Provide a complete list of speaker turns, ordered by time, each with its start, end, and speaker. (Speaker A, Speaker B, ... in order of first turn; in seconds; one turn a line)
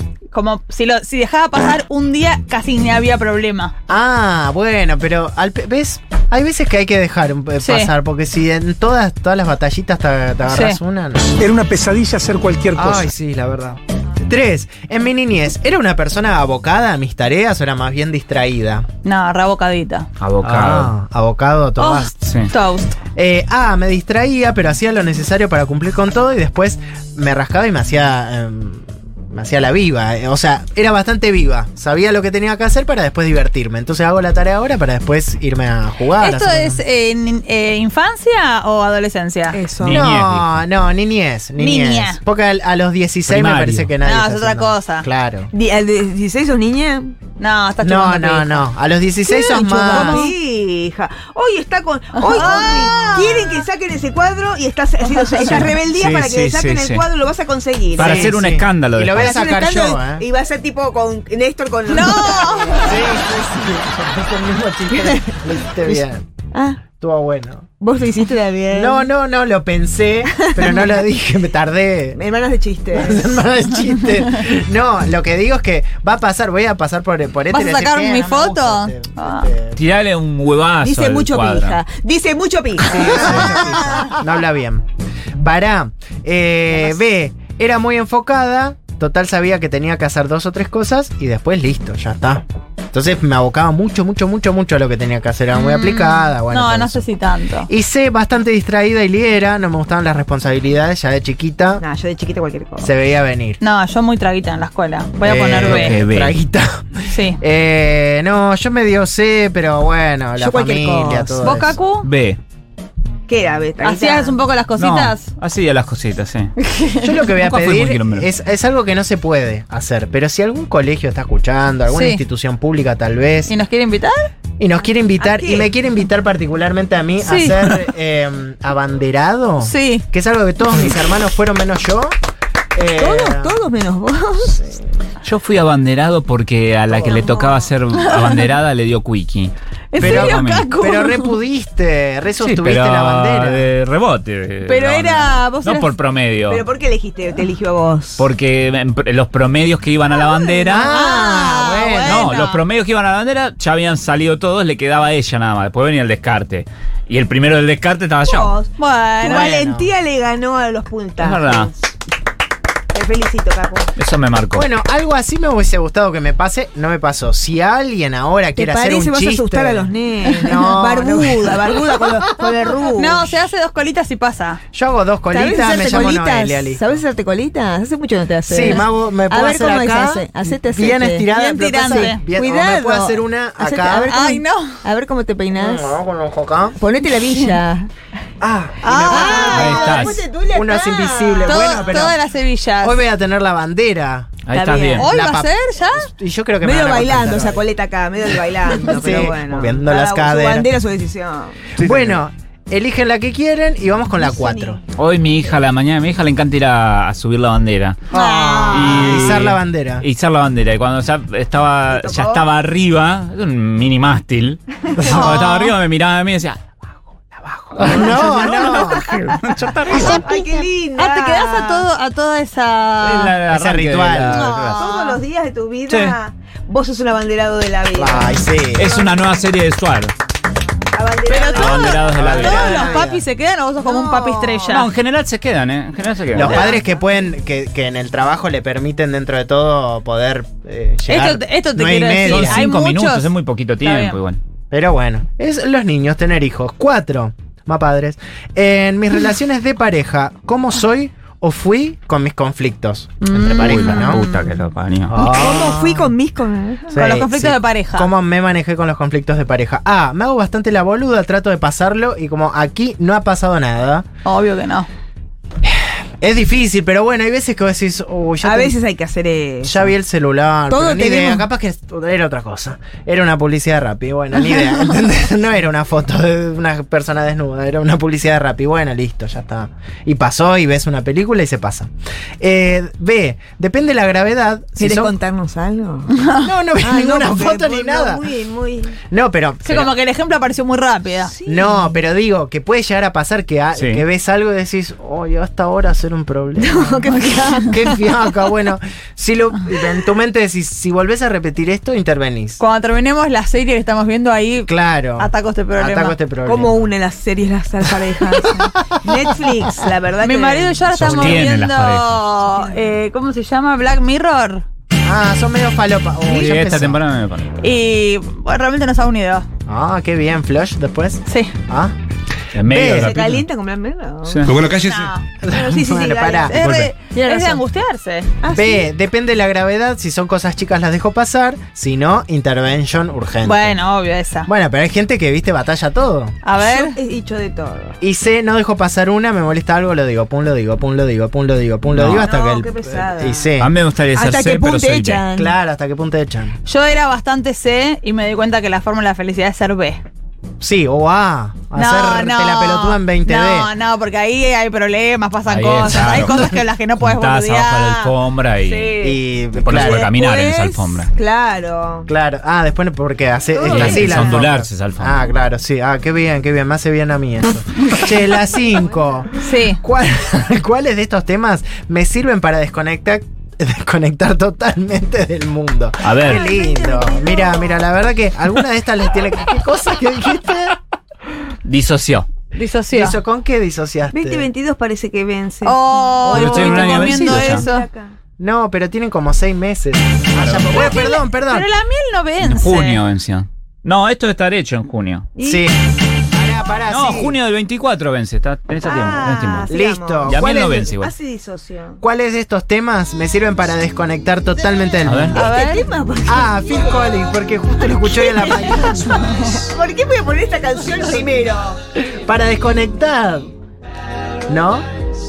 Speaker A: 0.3-3.7
Speaker B: 3.9-11.4
Speaker A: 7.6-7.9
Speaker A: 10.5-10.8
Speaker C: 11.4-13.1
Speaker B: 12.7-18.9
Speaker A: 19.0-20.1
Speaker D: 20.2-20.9
Speaker B: 20.4-22.1
Speaker A: 21.8-22.9
Speaker D: 22.2-22.5
Speaker B: 23.1-36.8
Speaker A: 36.2-39.6
Speaker E: 39.5-40.0
Speaker D: 39.8-40.5
Speaker B: 39.9-45.5
Speaker A: 41.6-42.2
Speaker D: 43.3-43.9
Speaker A: 44.0-45.1
Speaker E: 45.5-47.1
Speaker A: 47.4-48.7
Speaker B: 47.8-50.3
Speaker E: 49.2-58.4
Speaker A: 49.8-50.3
Speaker A: 52.1-53.6
Speaker D: 55.4-57.0
Speaker D: 57.9-59.4
Speaker B: 58.0-60.2
Speaker E: 59.2-63.1
Speaker A: 61.9-62.9
Speaker B: 62.8-66.2
Speaker E: 64.9-66.8
Speaker B: 66.9-67.7
Speaker E: 67.8-69.1
Speaker B: 68.7-72.2
Speaker E: 70.3-70.9
Speaker E: 72.1-73.3
Speaker B: 72.9-79.8
Speaker A: 77.5-79.5
Speaker D: 79.8-81.8
Speaker E: 80.8-84.0
Speaker B: 82.9-84.8
Speaker B: 85.4-97.0
Speaker A: 95.5-97.7
Speaker B: 97.7-101.8
Speaker E: 101.8-102.9
Speaker B: 102.8-103.6
Speaker A: 103.6-106.0
Speaker B: 105.2-111.8
Speaker D: 105.6-106.3
Speaker A: 107.1-107.4
Speaker E: 110.4-111.5
Speaker A: 111.4-112.1
Speaker D: 112.0-112.4
Speaker E: 113.3-114.4
Speaker A: 113.8-115.2
Speaker D: 114.8-116.5
Speaker A: 116.6-117.2
Speaker B: 117.0-123.5
Speaker D: 117.4-118.3
Speaker A: 121.9-122.2
Speaker A: 123.5-124.3
Speaker B: 124.6-132.1
Speaker E: 125.2-125.7
Speaker A: 127.2-127.8
Speaker A: 129.6-130.0
Speaker B: 132.7-133.6
Speaker E: 133.0-134.7
Speaker D: 135.2-140.7
Speaker E: 137.0-137.7
Speaker A: 138.0-138.4
Speaker A: 139.9-141.3
Speaker B: 140.0-143.7
Speaker D: 142.4-146.6
Speaker A: 144.7-145.9
Speaker E: 146.5-148.3
Speaker D: 148.2-150.9
Speaker A: 150.5-152.6
Speaker B: 150.7-152.3
Speaker D: 152.0-158.5
Speaker E: 158.2-161.7
Speaker A: 158.8-159.5
Speaker B: 159.2-159.9
Speaker D: 161.2-161.7
Speaker E: 162.9-163.9
Speaker D: 164.0-164.7
Speaker B: 164.5-172.2
Speaker E: 168.6-173.4
Speaker A: 173.0-174.6
Speaker B: 174.7-176.9
Speaker E: 175.3-181.3
Speaker B: 178.4-184.1
Speaker A: 181.3-182.2
Speaker E: 181.9-186.0
Speaker A: 184.0-184.8
Speaker B: 185.6-186.8
Speaker E: 186.8-187.9
Speaker B: 188.4-189.8
Speaker A: 188.8-190.1
Speaker E: 188.9-192.1
Speaker D: 189.5-190.2
Speaker B: 190.5-192.2
Speaker A: 191.4-193.0
Speaker B: 192.8-194.3
Speaker D: 194.4-195.1
Speaker E: 194.5-195.1
Speaker A: 195.0-196.1
Speaker B: 195.0-197.7
Speaker E: 196.6-201.8
Speaker B: 198.7-200.7
Speaker B: 201.8-204.8
Speaker E: 204.1-204.8
Speaker D: 205.0-208.0
Speaker B: 208.1-210.1
Speaker E: 208.1-209.2
Speaker D: 208.7-216.8
Speaker E: 211.9-212.5
Speaker B: 215.0-215.8
Speaker D: 217.3-220.3
Speaker B: 217.8-220.4
Speaker E: 219.9-221.9
Speaker A: 221.0-223.4
Speaker D: 223.0-224.9
Speaker B: 223.5-224.8
Speaker E: 224.4-229.3
Speaker D: 225.9-226.2
Speaker B: 227.9-228.9
Speaker D: 228.7-230.1
Speaker E: 230.9-233.1
Speaker D: 231.3-232.8
Speaker A: 231.3-234.9
Speaker B: 232.0-233.2
Speaker E: 233.8-234.9
Speaker D: 234.7-236.7
Speaker B: 236.3-242.6
Speaker E: 236.4-236.9
Speaker A: 241.1-243.3
Speaker D: 242.3-244.4
Speaker A: 243.8-244.2
Speaker B: 244.7-254.2
Speaker A: 253.2-254.5
Speaker D: 253.3-255.2
Speaker B: 255.1-256.1
Speaker E: 255.1-257.0
Speaker B: 256.9-264.0
Speaker A: 257.0-258.1
Speaker A: 264.2-264.9
Speaker B: 265.6-268.8
Speaker E: 268.4-269.9
Speaker B: 269.6-281.9
Speaker E: 270.7-271.5
Speaker B: 282.4-285.1
Speaker E: 284.8-286.1
Speaker B: 286.4-288.2
Speaker E: 286.8-289.0
Speaker B: 289.1-289.9
Speaker A: 289.6-291.3
Speaker E: 291.2-292.0
Speaker B: 291.5-302.6
Speaker D: 293.8-294.0
Speaker E: 296.6-298.4
Speaker A: 302.6-306.2
Speaker B: 304.6-306.8
Speaker E: 306.5-311.4
Speaker A: 310.2-314.6
Speaker D: 310.9-312.2
Speaker E: 312.4-312.9
Speaker B: 315.0-317.0
Speaker D: 316.2-317.5
Speaker A: 317.6-319.5
Speaker B: 319.6-321.9
Speaker A: 321.2-321.5
Speaker D: 322.5-323.4
Speaker B: 322.6-323.2
Speaker E: 323.0-324.8
Speaker D: 324.2-324.6
Speaker C: 324.5-325.1
Speaker A: 324.8-325.2
Speaker B: 325.4-326.6
Speaker E: 325.5-326.6
Speaker A: 326.5-328.3
Speaker D: 326.6-326.9
Speaker E: 327.1-327.6
Speaker E: 328.4-328.9
Speaker B: 328.5-333.8
Speaker A: 333.4-334.5
Speaker B: 334.5-336.4
Speaker A: 336.4-336.9
Speaker E: 336.6-338.0
Speaker B: 338.0-343.7
Speaker D: 341.9-342.3
Speaker E: 342.2-343.5
Speaker D: 343.6-345.2
Speaker E: 344.1-345.5
Speaker B: 345.4-346.6
Speaker A: 346.6-350.0
Speaker B: 350.6-353.7
Speaker A: 351.7-358.1
Speaker D: 355.5-359.0
Speaker E: 358.6-362.1
Speaker B: 359.0-360.1
Speaker D: 359.6-361.1
Speaker B: 362.1-380.8
Speaker E: 363.5-364.5
Speaker D: 363.7-365.3
Speaker A: 369.4-369.8
Speaker D: 376.0-376.4
Speaker E: 376.2-377.9
Speaker D: 381.6-382.2
Speaker A: 382.5-383.2
Speaker B: 382.9-384.5
Speaker E: 384.1-388.1
Speaker A: 385.6-387.9
Speaker B: 386.2-387.2
Speaker D: 386.3-387.6
Speaker B: 388.4-391.7
Speaker D: 390.3-391.1
Speaker A: 390.7-393.0
Speaker D: 392.4-395.3
Speaker E: 395.4-395.7
Speaker B: 395.4-395.8
Speaker B: 396.3-397.4
Speaker D: 396.9-399.7
Speaker E: 398.8-402.0
Speaker B: 399.7-400.9
Speaker D: 400.2-401.1
Speaker B: 402.0-405.5
Speaker D: 405.0-405.4
Speaker E: 405.3-407.3
Speaker A: 405.4-405.9
Speaker B: 406.2-409.2
Speaker E: 407.8-411.8
Speaker A: 409.1-409.5
Speaker B: 411.9-413.5
Speaker B: 414.5-414.9